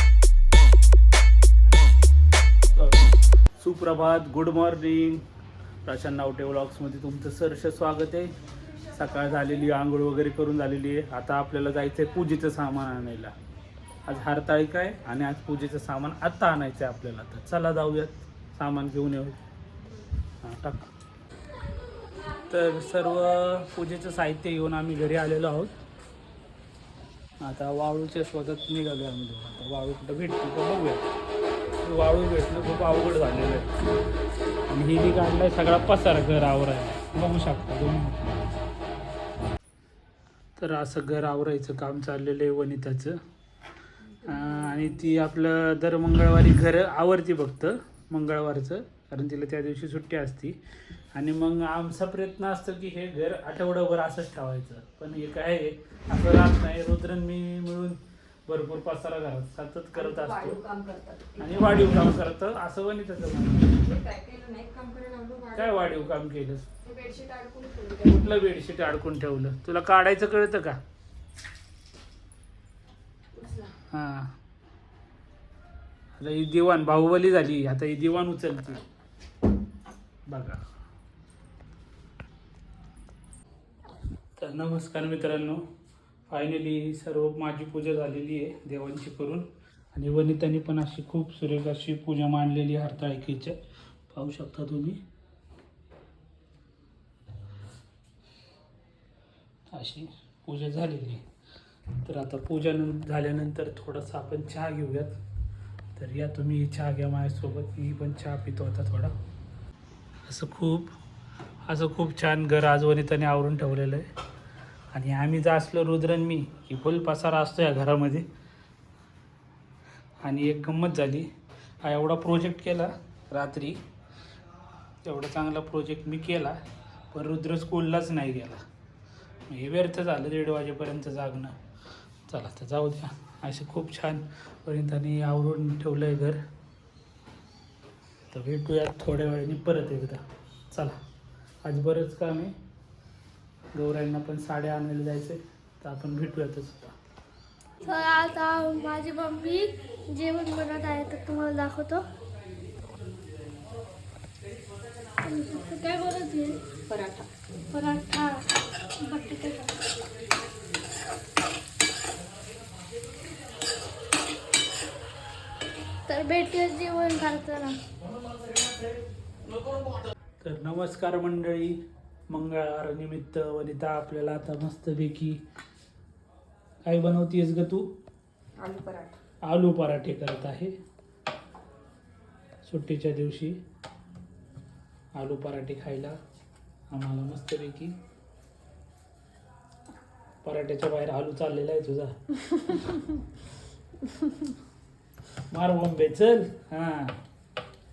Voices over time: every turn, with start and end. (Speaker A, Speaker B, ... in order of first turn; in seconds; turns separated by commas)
Speaker A: 2.7-5.2, Speaker A: 5.8-8.3, Speaker A: 8.9-13.3, Speaker A: 14.1-19.4, Speaker A: 20.4-20.9, Speaker A: 22.5-25.8, Speaker A: 27.4-31.1, Speaker A: 31.8-33.7, Speaker A: 34.7-38.4, Speaker A: 40.6-43.2, Speaker A: 44.2-50.6, Speaker A: 51.1-60.6, Speaker B: 59.9-62.0, Speaker A: 61.4-63.8, Speaker B: 63.8-65.9, Speaker A: 65.5-66.7, Speaker B: 66.8-68.1, Speaker A: 68.0-70.8, Speaker B: 73.3-73.7, Speaker A: 73.9-74.3, Speaker A: 76.2-78.8, Speaker A: 80.3-80.6, Speaker A: 84.4-85.6, Speaker A: 86.3-93.6, Speaker A: 94.1-95.0, Speaker A: 99.7-101.2, Speaker A: 102.0-105.1, Speaker A: 106.0-109.1, Speaker A: 110.2-110.9, Speaker A: 111.7-114.1, Speaker A: 114.9-118.3, Speaker A: 120.2-121.3, Speaker A: 121.8-123.8, Speaker A: 125.0-126.6, Speaker A: 127.1-128.6, Speaker A: 129.5-131.6, Speaker A: 132.3-136.4, Speaker A: 138.3-140.9, Speaker A: 141.6-142.5, Speaker A: 143.7-146.9, Speaker C: 147.8-152.1, Speaker C: 155.2-156.6, Speaker B: 156.9-157.3, Speaker C: 157.7-158.4, Speaker C: 159.0-159.8, Speaker C: 166.1-167.8, Speaker A: 170.4-171.8, Speaker A: 172.3-175.4, Speaker A: 176.8-177.9, Speaker B: 178.6-179.2, Speaker A: 179.4-180.7, Speaker A: 182.6-183.6, Speaker A: 185.1-186.2, Speaker A: 186.9-188.0, Speaker A: 190.4-192.1, Speaker A: 195.5-197.2